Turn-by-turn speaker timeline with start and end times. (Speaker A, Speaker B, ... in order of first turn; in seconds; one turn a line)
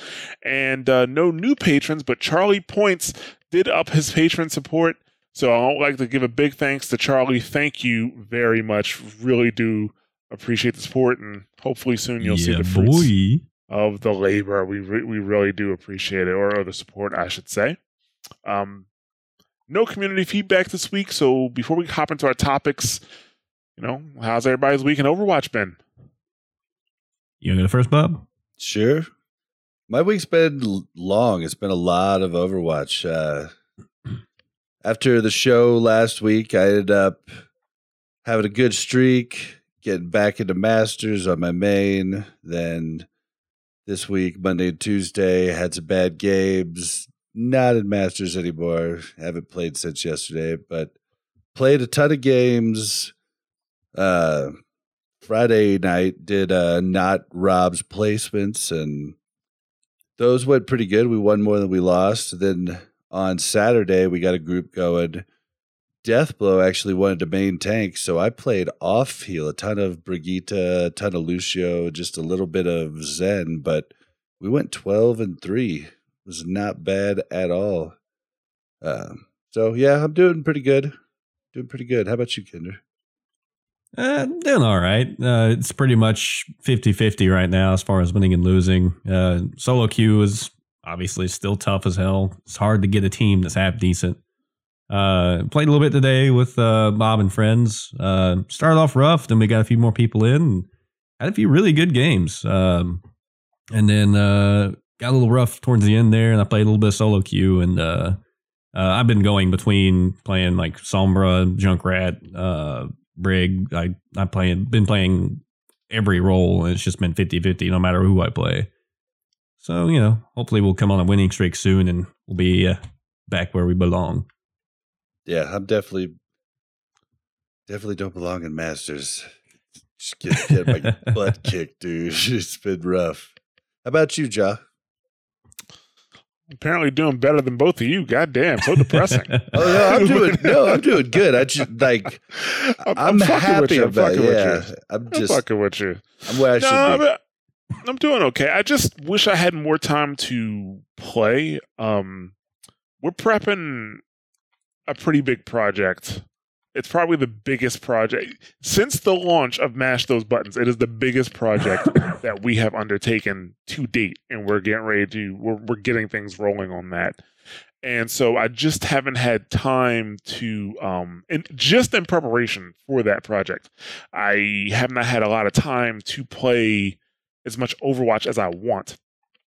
Speaker A: 0.4-13.1
Speaker B: 12.2-13.4
Speaker A: 13.7-17.8
Speaker A: 18.4-18.9
Speaker A: 19.7-23.0
Speaker A: 23.8-25.8
Speaker B: 27.4-28.2
Speaker C: 28.6-29.1
Speaker C: 29.9-33.5
Speaker C: 34.8-37.3
Speaker C: 38.2-43.1
Speaker C: 43.9-50.9
Speaker C: 51.5-53.1
Speaker C: 53.9-54.5
Speaker C: 55.2-59.1
Speaker C: 60.2-65.2
Speaker C: 66.0-77.9
Speaker C: 78.8-80.9
Speaker C: 81.5-82.8
Speaker B: 84.0-94.2
Speaker B: 94.9-100.7
Speaker B: 101.2-103.0
Speaker B: 103.7-108.2
Speaker B: 108.7-118.7
Speaker B: 119.6-124.2
Speaker C: 125.2-126.1
Speaker C: 127.7-129.3
Speaker C: 130.0-133.3
Speaker C: 133.8-134.6
Speaker A: 136.6-141.2
Speaker B: 138.9-139.7
Speaker C: 139.5-142.2
Speaker A: 142.3-147.2
Speaker C: 142.8-145.4
Speaker C: 146.3-147.0
Speaker A: 147.8-152.3
Speaker A: 153.0-154.0
Speaker A: 154.9-156.2
Speaker A: 156.7-167.2
Speaker A: 167.8-179.0